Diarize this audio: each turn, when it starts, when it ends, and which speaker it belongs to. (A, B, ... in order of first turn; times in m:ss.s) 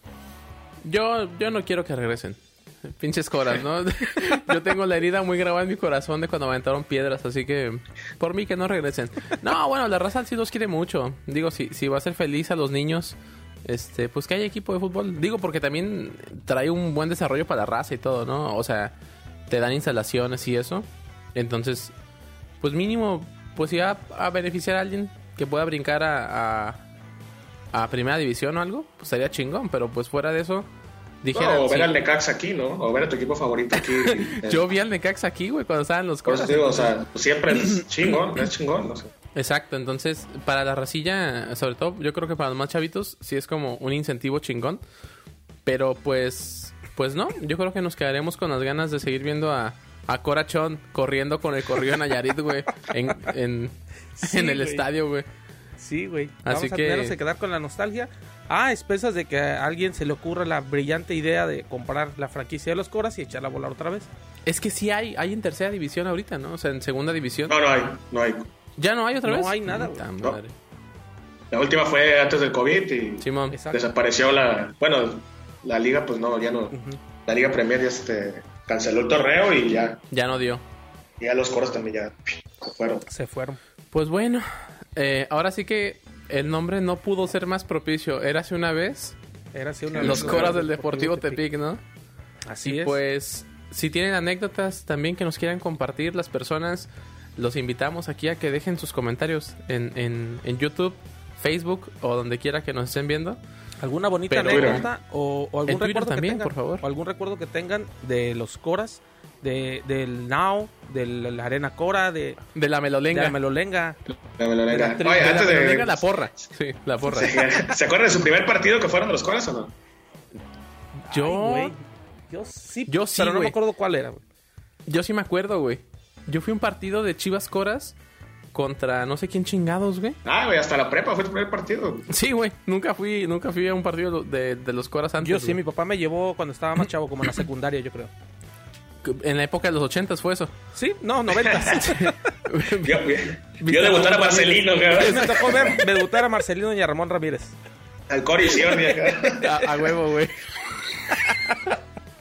0:00.8-0:19.0 A
0:19.5-0:21.9 A
0:22.6-0:26.8 A
0:27.7-0:30.7 A
0:31.2-0:31.9 A
0:31.3-0:34.7 B
0:34.2-0:37.0 A
0:36.3-0:39.1 B
0:39.4-0:44.8 A
0:45.7-0:55.3 A
0:54.2-0:54.9 C
0:55.8-1:04.1 C
0:56.5-0:57.2 A
1:04.5-1:07.6 A
1:07.5-1:08.5 B
1:08.8-1:10.5 A
1:09.2-1:10.0 C
1:11.5-1:20.0 B
1:13.2-1:13.6 A
1:13.5-1:13.8 C
1:16.7-1:17.0 C
1:20.1-1:20.6 A
1:21.2-1:23.0 B
1:23.1-1:23.6 C
1:23.9-1:29.2 A
1:29.5-1:31.4 C
1:29.9-1:30.6 B
1:30.0-1:31.8 A
1:32.5-1:33.0 C
1:32.6-1:43.4 A
1:43.8-1:52.4 C
1:44.3-1:44.9 A
1:44.5-1:44.9 B
1:45.7-1:46.8 A
1:52.5-1:53.4 A
1:53.1-1:54.0 C
1:54.1-1:56.1 B
1:54.7-1:55.4 C
1:55.1-1:57.4 A
1:57.0-1:59.7 B
2:01.1-2:04.2 C
2:01.1-2:01.7 A
2:02.9-2:03.6 A
2:04.9-2:08.0 A
2:08.5-2:10.2 A
2:10.2-2:12.1 B
2:12.1-2:15.6 A
2:15.2-2:18.1 C
2:19.0-2:20.5 A
2:20.8-2:22.2 C
2:21.4-2:21.8 B
2:22.0-2:23.1 A
2:22.8-2:25.8 B
2:23.6-2:25.2 A
2:24.9-2:27.6 C
2:28.1-2:29.6 B
2:29.4-2:30.5 A
2:31.3-2:31.7 A